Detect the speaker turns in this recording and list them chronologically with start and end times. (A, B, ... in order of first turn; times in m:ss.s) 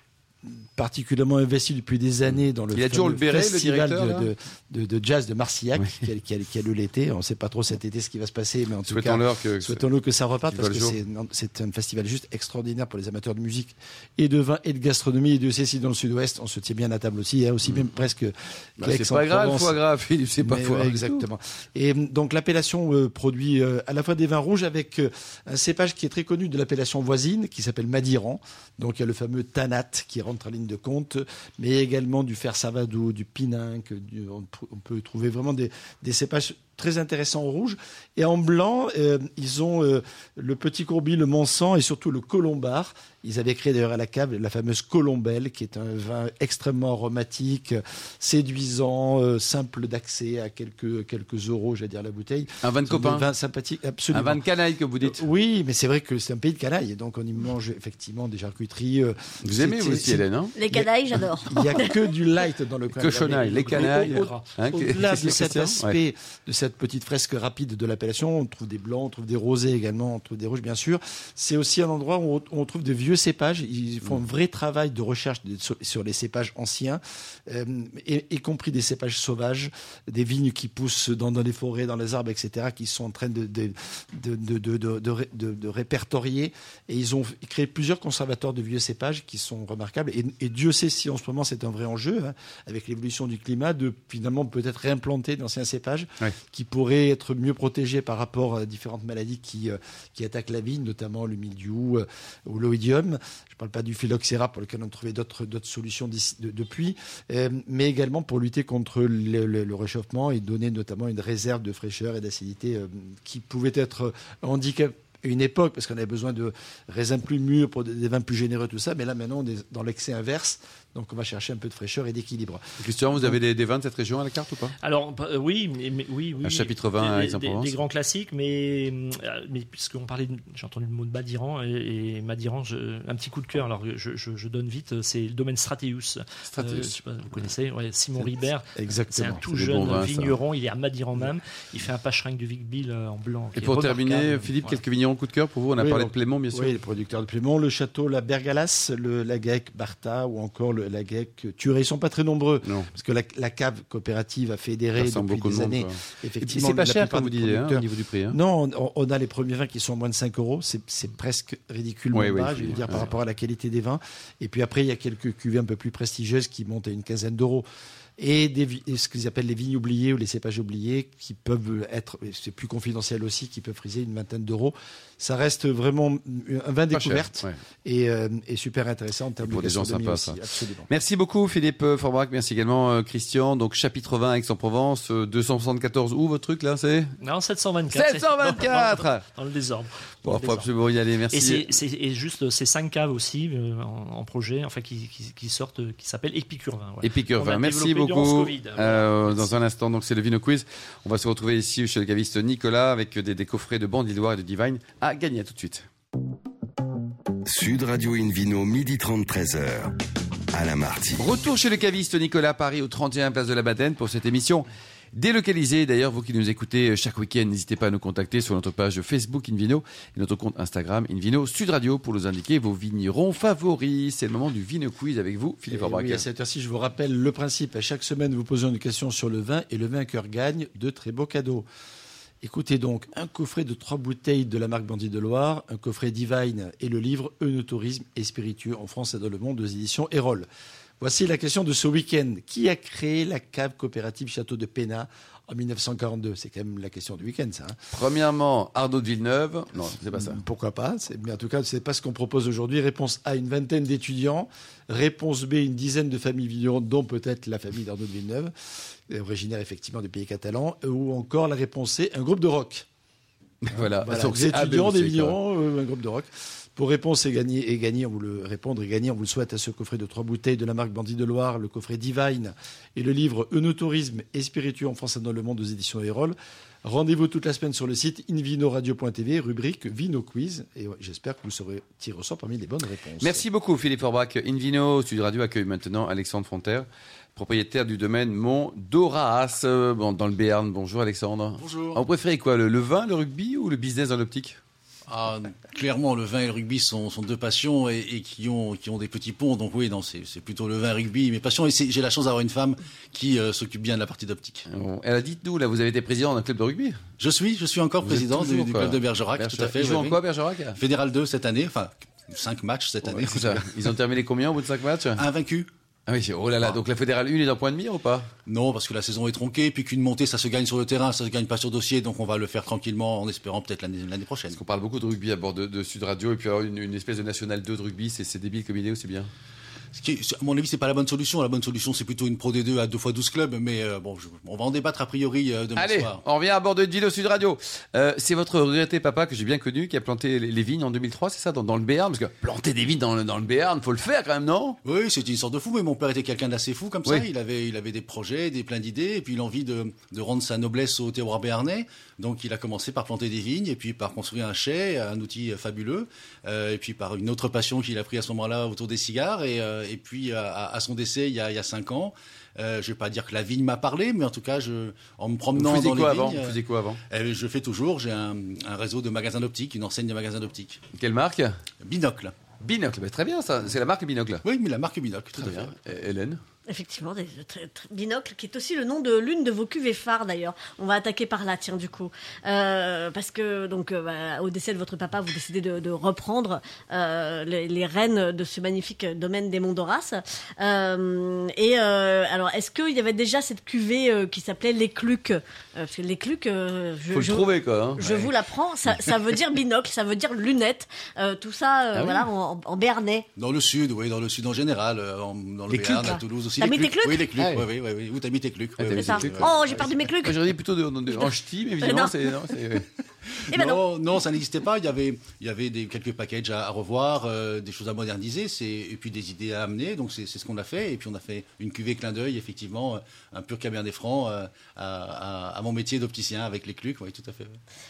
0:00.5-0:19.8 A
0:02.7-0:04.3 B
0:05.8-0:06.1 B
0:08.9-0:09.8 B
0:10.5-0:11.0 B
0:18.8-0:21.3 B
0:20.4-0:54.4 A
0:52.6-0:53.3 B
0:54.1-0:55.2 B
0:55.0-2:02.6 A
0:59.4-1:00.6 B
1:00.6-1:02.0 C
1:03.0-1:06.0 B
1:03.4-1:04.6 D
2:02.8-2:04.8 B
2:04.8-2:24.8 D
2:06.4-2:07.8 B
2:16.5-2:17.0 B
2:18.2-2:19.5 A
2:19.5-2:20.4 B
2:23.6-2:26.7 B
2:25.8-2:47.7 A
2:32.6-2:32.9 B
2:35.0-2:38.4 B
2:42.1-2:43.1 B
2:42.8-2:43.0 D
2:48.2-3:00.9 A
2:56.9-2:57.6 B
2:59.4-3:07.2 B
3:07.2-3:10.7 D
3:07.9-3:09.2 B
3:10.2-3:11.7 B
3:11.3-3:19.6 D
3:17.0-3:25.9 B
3:27.5-3:30.0 E
3:30.5-3:31.3 E
3:31.2-3:46.2 B
3:45.7-3:51.7 A
3:52.4-4:00.5 A
4:01.0-4:07.8 A
4:07.9-4:10.4 B
4:10.1-4:18.5 A
4:19.1-4:22.9 A
4:23.6-4:25.4 B
4:23.8-4:43.4 A
4:43.2-4:54.6 B
4:51.6-4:52.0 F
4:55.1-5:04.7 F
5:04.7-5:07.0 B
5:07.2-5:10.2 F
5:08.0-5:10.8 B
5:10.8-5:13.7 F
5:13.0-5:15.2 B
5:15.2-5:15.7 F
5:16.1-5:18.3 B
5:18.5-5:24.6 F
5:24.5-5:29.3 B
5:29.9-5:36.2 F
5:35.8-5:44.8 B
5:44.8-6:10.8 F
6:05.6-6:07.0 B
6:11.0-6:11.6 B
6:11.8-6:12.4 F
6:12.6-6:14.4 B
6:14.4-6:15.8 F
6:15.4-6:16.4 B
6:16.7-6:43.3 C
6:37.1-6:38.3 B
6:41.9-6:42.3 B
6:43.4-6:49.9 F
6:45.7-6:46.2 B
6:46.0-6:47.3 C
6:47.4-6:47.7 B
6:48.8-6:52.9 B
6:49.0-6:50.4 C
6:51.1-6:52.6 C
6:53.4-7:07.6 F
6:53.5-6:53.8 C